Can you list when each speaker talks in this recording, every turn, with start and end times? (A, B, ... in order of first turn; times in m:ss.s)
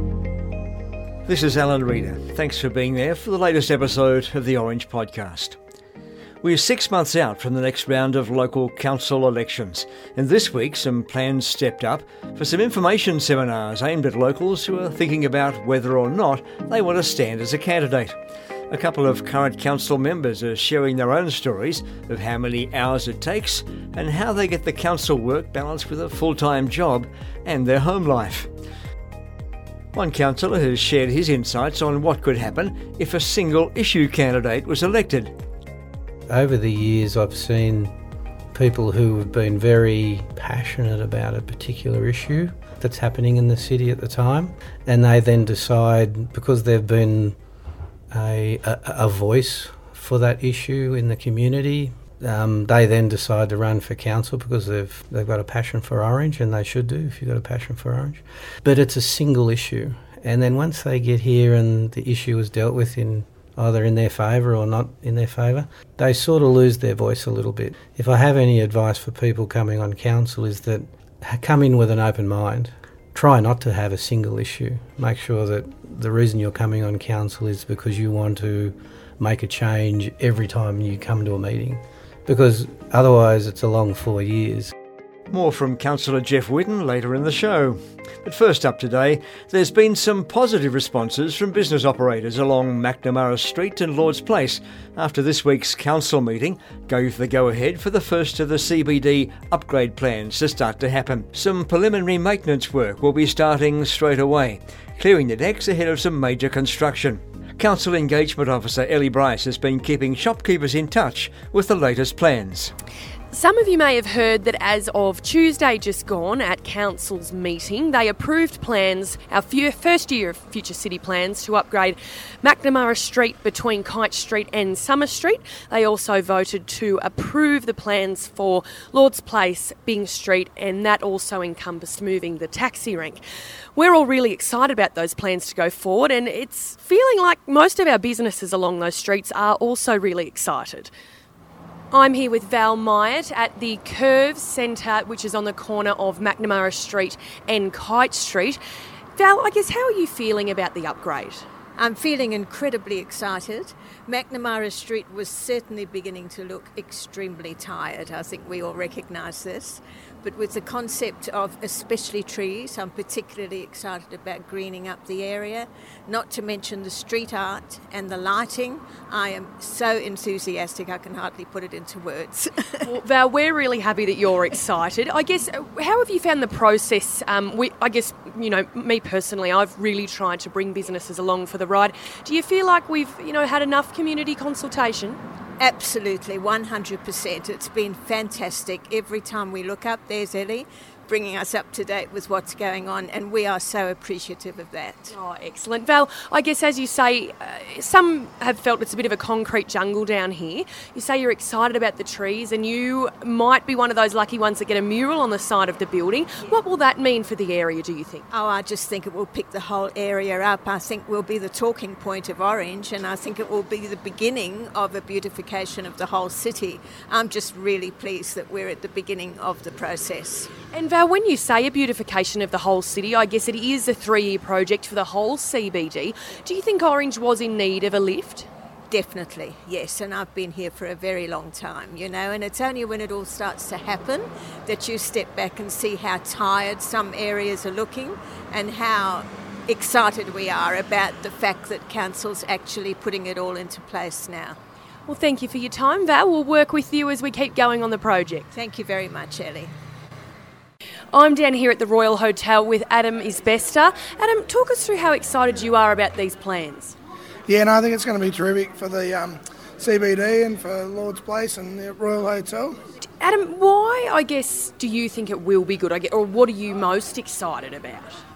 0:01.3-0:05.6 A
0:06.4-0:18.2 A
0:18.7-0:28.5 A
0:29.9-0:35.3 A
0:36.3-0:37.9 B
0:38.5-0:47.4 B
0:48.1-1:24.7 B
1:25.3-1:52.7 A
1:53.3-2:13.2 C
2:13.8-2:20.9 C
2:21.9-2:28.6 C
2:29.2-2:31.4 C
2:31.8-2:53.0 D
2:52.8-3:05.2 C
3:05.6-3:15.1 D
3:15.1-3:28.3 C
3:28.3-3:40.5 D
3:40.7-3:48.5 C
3:48.9-4:04.6 D
4:05.1-4:08.5 C
4:08.5-4:09.7 D
4:11.1-4:17.0 C
4:17.5-4:22.8 E
4:23.2-4:28.2 C